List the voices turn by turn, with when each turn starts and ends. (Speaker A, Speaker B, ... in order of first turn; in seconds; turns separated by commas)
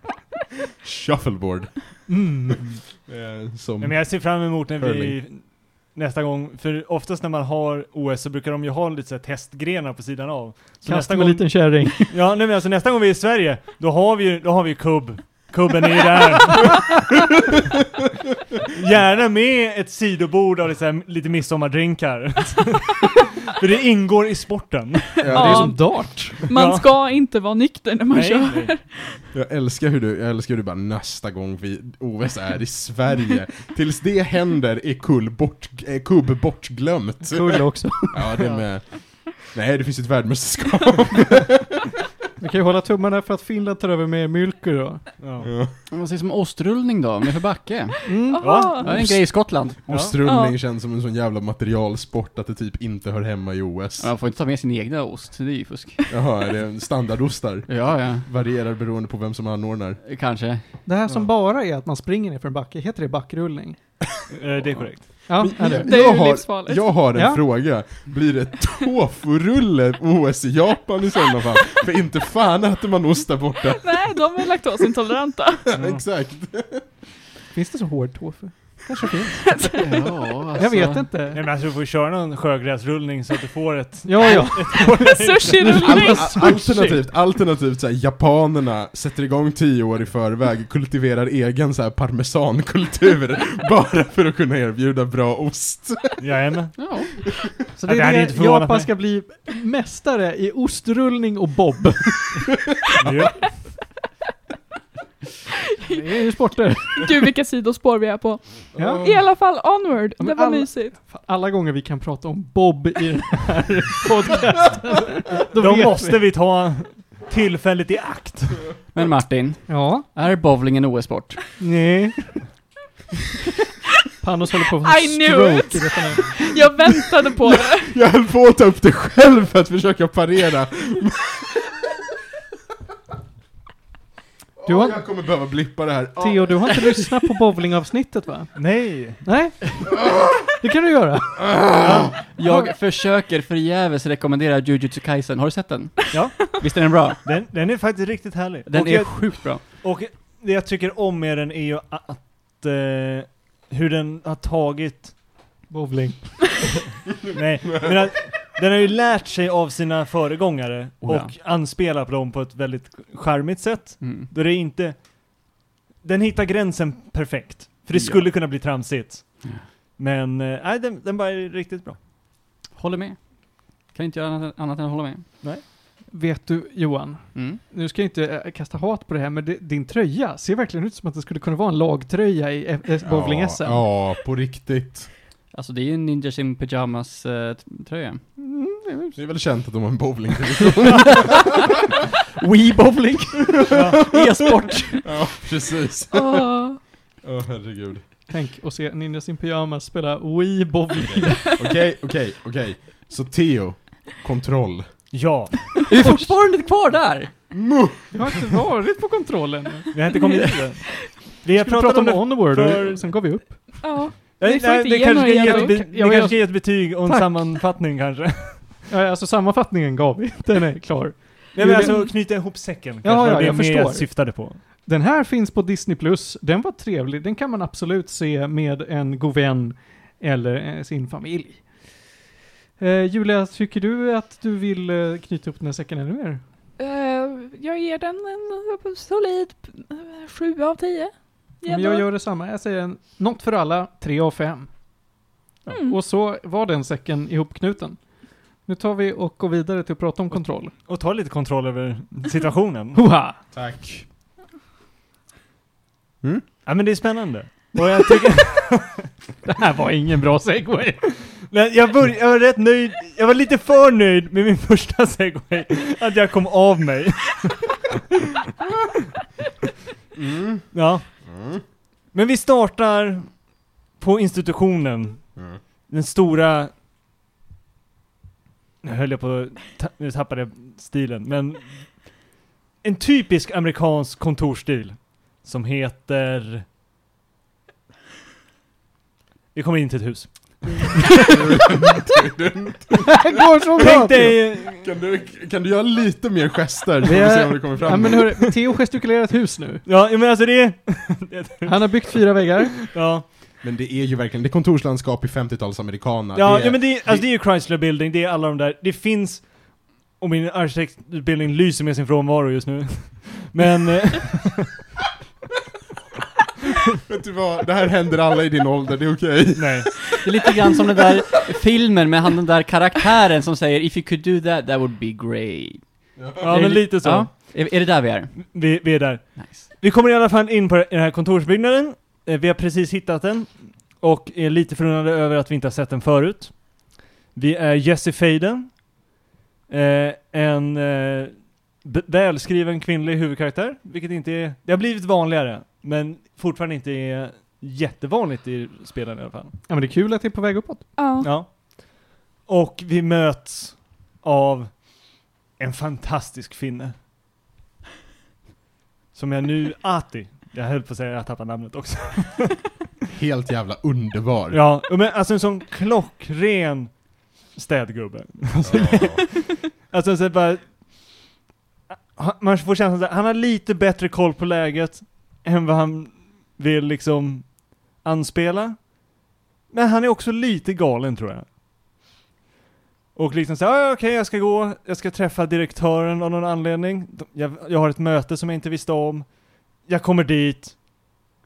Speaker A: 0.8-2.1, Speaker B: 2.1-2.8, Speaker A: 3.0-5.2, Speaker C: 3.8-17.0, Speaker B: 10.8-12.2, Speaker C: 18.7-25.6, Speaker A: 25.2-25.9, Speaker B: 25.3-26.4, Speaker D: 25.3-29.0, Speaker C: 26.5-26.9, Speaker C: 28.1-28.8, Speaker A: 29.3-41.8, Speaker B: 37.3-38.3, Speaker C: 38.4-38.6, Speaker B: 42.4-45.1, Speaker C: 45.2-45.5, Speaker A: 45.4-45.7, Speaker E: 45.9-49.9, Speaker B: 48.0-48.7, Speaker D: 48.1-48.9, Speaker C: 48.4-49.1, Speaker A: 48.9-54.1, Speaker C: 49.9-50.1, Speaker D: 50.2-50.5, Speaker E: 54.0-56.0, Speaker A: 56.1-60.0, Speaker E: 57.7-58.3, Speaker E: 60.0-60.8, Speaker B: 60.9-63.8, Speaker C: 64.3-65.3, Speaker A: 64.6-74.5, Speaker B: 65.3-65.9, Speaker D: 65.6-66.9, Speaker B: 67.1-67.4, Speaker D: 73.8-75.7, Speaker A: 75.7-76.9, Speaker C: 75.8-76.0, Speaker B: 77.5-79.7, Speaker E: 79.8-81.0, Speaker B: 80.5-81.4, Speaker C: 81.2-85.9, Speaker B: 84.0-87.1, Speaker D: 84.7-86.3, Speaker A: 85.8-96.2, Speaker C: 96.2-96.7, Speaker E: 96.8-97.2, Speaker B: 97.7-102.5, Speaker C: 97.8-98.9, Speaker C: 103.0-103.6, Speaker B: 105.9-107.2, Speaker D: 106.9-110.9, Speaker A: 108.7-109.1, Speaker B: 108.8-109.2, Speaker B: 110.2-116.3, Speaker C: 115.5-118.7, Speaker E: 118.9-121.4, Speaker B: 119.7-120.0, Speaker B: 121.6-122.4, Speaker B: 124.2-126.4, Speaker D: 124.8-127.9, Speaker A: 127.5-131.6, Speaker A: 134.6-136.9, Speaker B: 134.7-135.0, Speaker B: 136.2-141.7, Speaker C: 138.6-139.2, Speaker C: 141.8-142.2, Speaker E: 142.2-147.2, Speaker B: 142.4-142.7, Speaker C: 146.1-155.2, Speaker E: 148.7-149.7, Speaker B: 155.7-156.8, Speaker C: 157.3-165.5, Speaker E: 161.0-161.3, Speaker E: 164.0-164.3, Speaker C: 166.0-172.0, Speaker E: 167.9-168.3, Speaker E: 172.7-175.3, Speaker B: 176.1-183.9, Speaker E: 177.3-177.6, Speaker A: 183.0-185.1, Speaker E: 185.5-188.2, Speaker B: 188.4-189.2, Speaker A: 189.2-191.4, Speaker E: 192.4-195.3, Speaker C: 193.7-194.1, Speaker A: 195.0-198.0, Speaker D: 196.1-196.8, Speaker B: 198.3-201.6, Speaker A: 201.4-205.1, Speaker C: 205.1-206.3, Speaker E: 205.9-207.5, Speaker A: 207.5-208.4, Speaker B: 208.1-210.1, Speaker C: 209.9-213.3, Speaker B: 211.5-214.3, Speaker D: 213.8-215.8, Speaker C: 214.4-218.8, Speaker B: 215.2-217.6, Speaker B: 218.9-232.2, Speaker C: 221.5-224.6, Speaker D: 221.7-222.1, Speaker B: 232.8-236.4, Speaker D: 236.8-242.1, Speaker B: 241.6-244.7, Speaker D: 245.7-246.0, Speaker B: 245.8-250.7, Speaker C: 250.3-253.0, Speaker B: 252.9-253.4, Speaker A: 253.5-254.1, Speaker C: 256.6-259.0, Speaker B: 259.4-261.1, Speaker C: 261.4-267.8, Speaker A: 270.1-271.6, Speaker C: 270.7-271.2, Speaker C: 272.1-276.7, Speaker C: 278.8-282.2, Speaker C: 282.8-286.6, Speaker C: 289.5-291.1, Speaker A: 291.3-293.2, Speaker B: 293.1-294.4, Speaker C: 293.8-294.9, Speaker A: 293.8-298.5, Speaker B: 297.0-299.8, Speaker C: 299.8-302.2, Speaker B: 301.6-302.8, Speaker C: 302.9-303.2, Speaker A: 303.6-307.2, Speaker C: 306.3-314.7, Speaker A: 317.1-320.1, Speaker C: 319.6-320.2, Speaker E: 320.2-328.7, Speaker A: 326.2-326.4, Speaker C: 326.4-327.7, Speaker C: 328.3-339.0, Speaker E: 329.4-329.7, Speaker C: 339.7-349.6, Speaker B: 349.7-350.9, Speaker D: 351.0-351.3, Speaker C: 351.2-356.9, Speaker C: 359.1-362.7, Speaker A: 363.1-364.6, Speaker C: 364.5-371.2, Speaker A: 368.6-369.2, Speaker C: 372.1-379.2, Speaker C: 379.7-381.5, Speaker C: 383.1-390.8